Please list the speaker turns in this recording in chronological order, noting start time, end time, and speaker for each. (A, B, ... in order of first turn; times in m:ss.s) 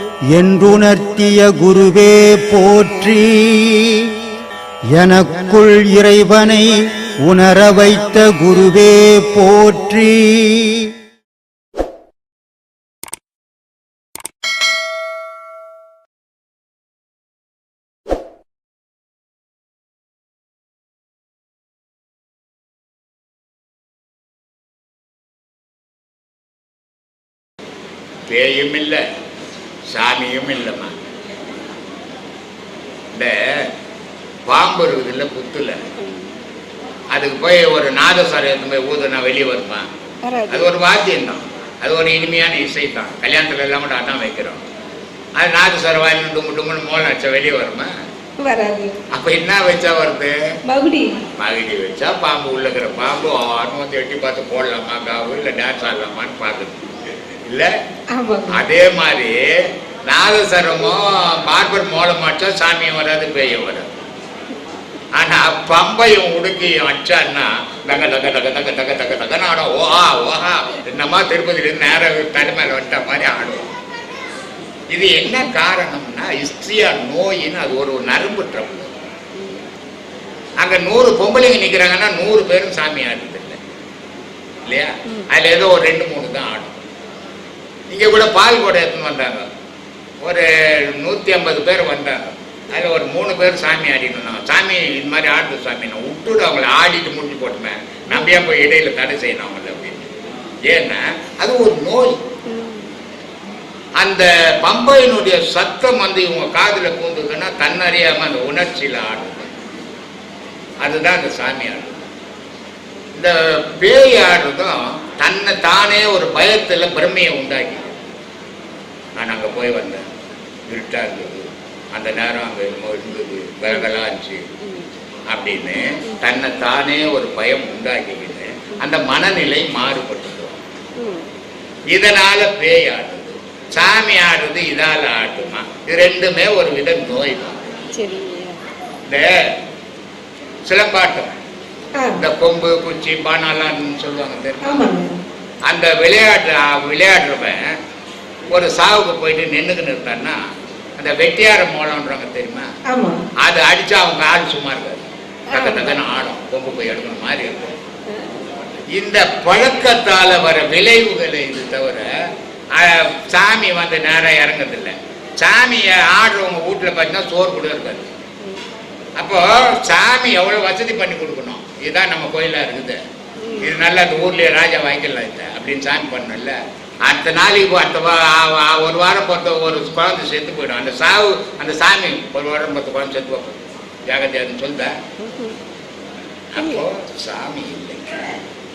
0:00.3-0:04.1 A
0:04.9-0:10.9 A
0:28.3-0:29.0 B
0:29.9-0:30.9 B
0:34.5-0:35.8 B
0:36.0-0:36.3 C
0:37.1-0:39.9 B
0:40.2-0:40.7 C
0:40.5-0:44.6 B
0:45.4-0:47.9 B
0:48.4-0:49.0 C
0:49.1-0:50.3 B
0:50.7-0:51.2 C
0:51.4-0:56.9 B
0:58.1-0:58.6 C
0:58.5-0:59.4 B
1:00.1-1:03.9 B
1:05.2-1:13.7 B
1:14.9-1:18.9 B
1:20.6-1:23.6 B
1:24.7-1:26.8 B
1:27.9-1:29.5 B
1:30.2-1:40.1 B
1:40.7-1:42.2 B
1:42.5-1:42.9 C
1:44.0-1:49.5 B
1:50.8-1:52.0 B
1:53.2-1:57.9 B
1:59.2-2:00.0 B
2:00.7-2:04.4 B
2:05.3-2:10.6 B
2:11.9-2:17.6 B
2:18.0-2:18.6 C
2:20.7-2:21.3 B
2:22.2-2:24.9 B
2:24.6-2:25.2 C
2:25.7-2:27.6 B
2:28.5-2:30.4 B
2:31.0-2:32.7 B
2:32.9-2:33.2 C
2:33.4-2:37.8 B
2:35.5-2:35.8 C
2:38.9-2:42.1 B
2:42.7-2:48.1 B
2:49.2-2:53.0 B
2:53.5-3:05.0 B
3:05.2-3:05.6 C
3:06.5-3:08.2 B